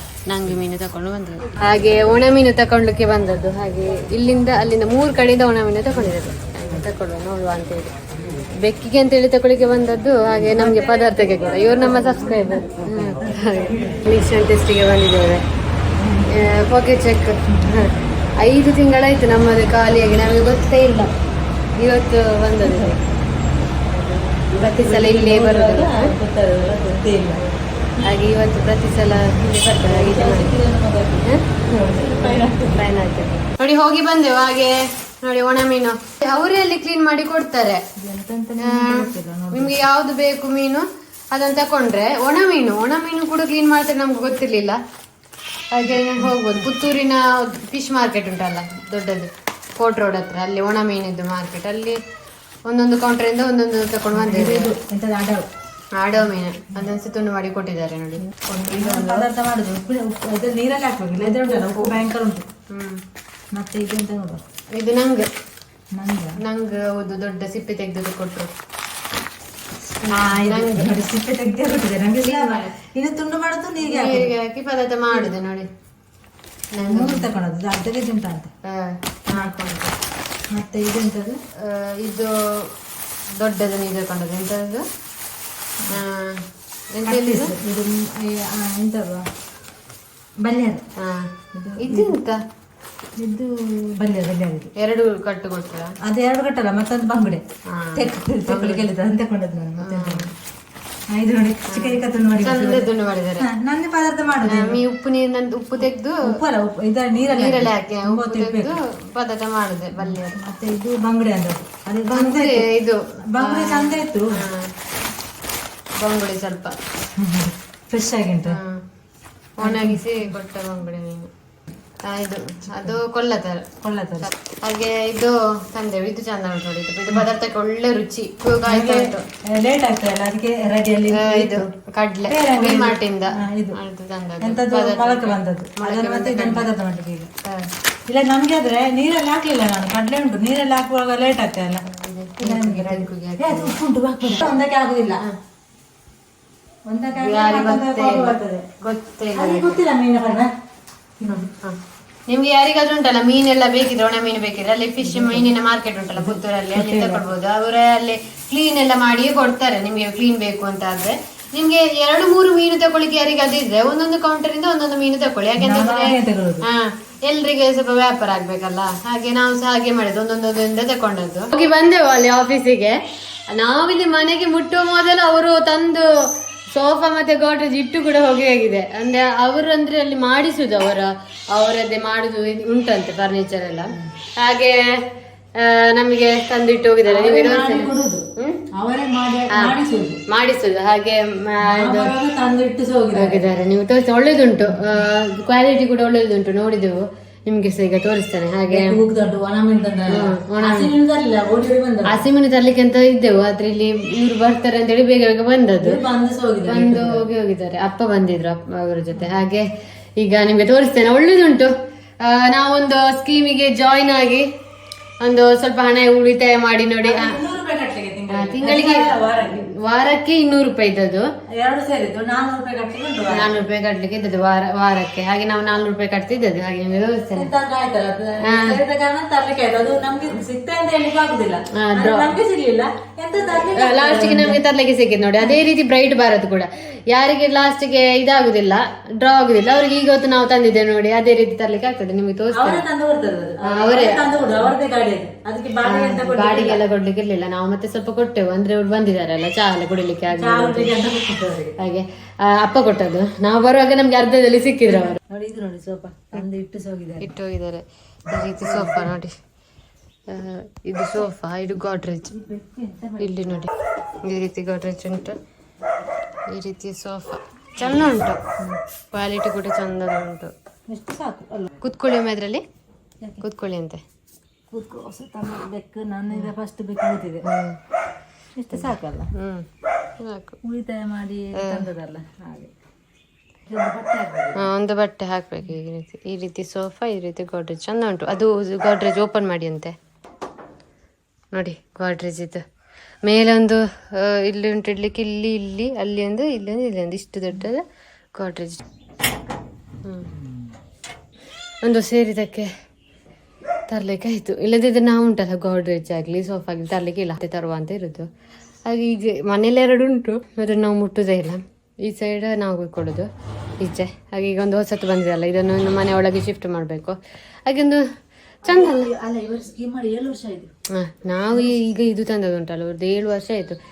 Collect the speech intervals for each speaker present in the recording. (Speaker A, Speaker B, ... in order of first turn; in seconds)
Speaker A: 0.3-7.9, 8.6-15.4, 16.3-21.1, 21.8-22.9, 24.6-26.1, 28.0-30.5, 31.2-37.8, 38.6-44.8, 45.7-52.0, 52.7-54.7, 56.0-59.3, 61.2-62.0, 62.7-63.0, 64.7-65.3, 66.4-68.5, 70.0-71.0, 72.2-72.7, 73.8-75.7, 76.7-77.3, 78.6-79.9, 81.6-82.7, 83.4-84.8, 85.9-87.5, 91.0-92.4, 94.8-95.9, 97.7-98.8, 99.8-100.3, 101.7-103.5, 104.4-106.3, 107.3-110.4, 112.1-114.7, 116.0-116.8, 118.4-118.8, 119.6-121.3, 122.0-123.7, 124.2-129.2, 131.1-136.7, 137.4-137.7, 141.9-143.8, 147.2-149.8, 151.3-173.0, 173.5-185.0, 185.6-188.6, 190.3-192.1, 193.1-199.0, 200.1-200.9, 202.1-206.0, 206.6-209.7, 210.2-211.7, 212.2-214.5, 215.2-217.4, 218.3-221.3, 223.3-227.5, 228.4-228.8, 231.7-232.3, 233.6-242.8, 243.6-244.7, 245.8-250.9, 251.8-255.2, 257.2-259.3, 260.3-262.3, 263.2-263.7, 264.2-265.4, 266.5-268.4, 269.1-270.5, 271.8-272.6, 273.4-274.0, 277.4-277.8, 278.7-279.7, 280.2-280.6, 281.5-281.9, 284.6-289.9, 291.5-292.6, 293.2-297.8, 298.4-298.8, 300.0-300.3, 301.8-302.7, 303.9-308.3, 308.9-313.3, 313.8-318.0, 318.6-319.1, 320.9-323.8
Speaker B: 10.5-14.0, 15.9-16.4, 22.6-23.0, 23.9-27.4, 29.1-32.9, 38.0-39.8, 45.9-46.7, 54.1-55.5, 58.4-62.5, 63.5-64.4, 65.9-66.4, 70.1-74.3, 76.8-78.5, 80.5-81.4, 87.0-89.3, 90.4-90.8, 91.5-92.1, 93.2-94.7, 96.0-97.4, 98.0-100.3, 101.1-102.9, 103.4-104.8, 106.2-108.8, 110.0-112.6, 113.3-114.4, 117.2-118.6, 119.6-120.1, 123.8-124.3, 128.7-131.7, 132.3-133.8, 134.4-137.3, 138.1-141.8, 142.4-145.2, 146.9-148.7, 149.3-150.5, 151.2-151.5, 155.0-155.5, 156.2-157.2, 165.6-166.6, 187.1-190.2, 191.6-193.4, 198.7-202.2, 205.8-207.2, 217.0-219.6, 221.5-223.5, 227.3-234.6, 242.5-246.8, 250.3-251.7, 254.9-257.3, 258.6-259.1, 262.3-263.7, 270.9-271.7, 274.7-277.4, 278.6-279.3, 280.6-282.7, 283.7-284.6, 318.6-320.7